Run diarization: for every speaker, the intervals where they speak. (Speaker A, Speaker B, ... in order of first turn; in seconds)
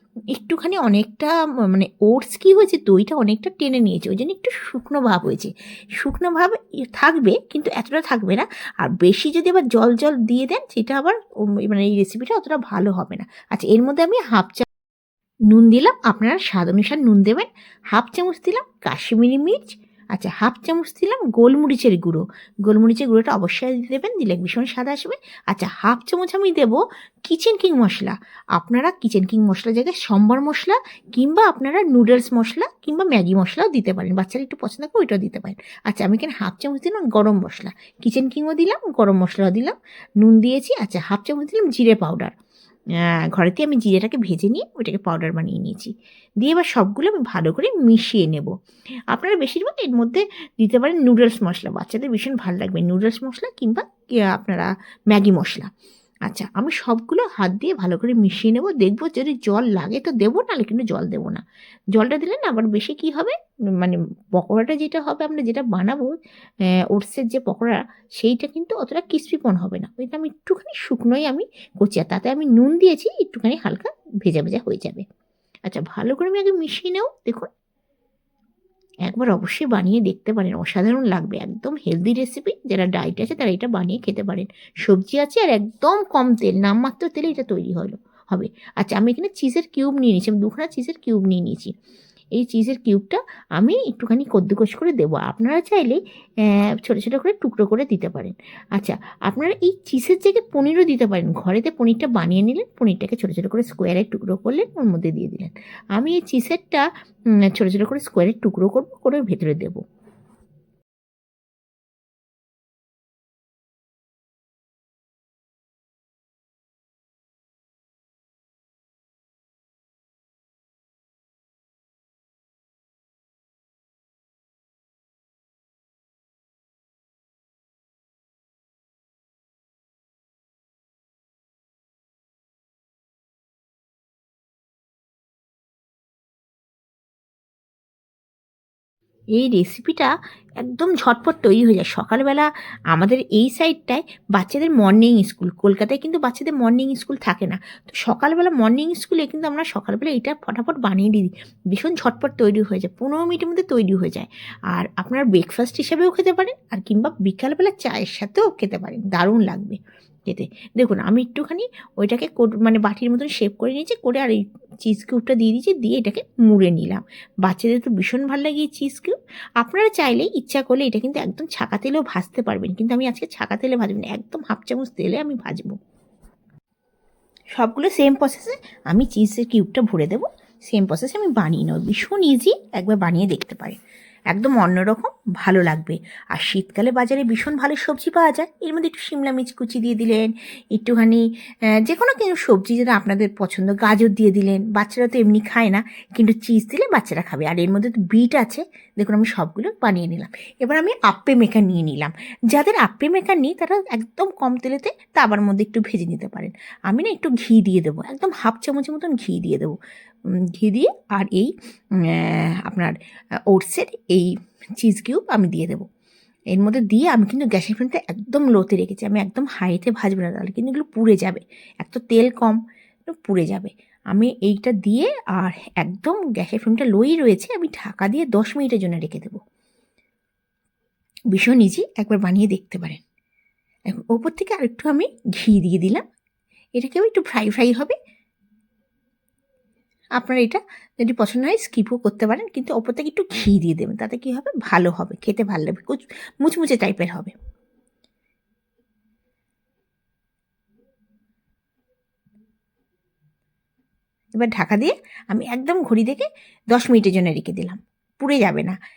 Speaker A: 0.3-14.7, 15.5-42.3, 43.0-48.5, 49.1-55.7, 56.3-61.4, 62.0-66.1, 66.9-75.0, 75.7-77.5, 79.1-91.7, 92.4-106.8, 107.4-109.8, 139.4-175.8, 177.6-183.8, 184.3-191.2, 191.8-209.8, 210.6-212.9, 213.5-215.9, 216.5-229.4, 231.3-233.0, 233.9-236.0, 236.8-238.0, 240.2-247.3, 254.3-258.8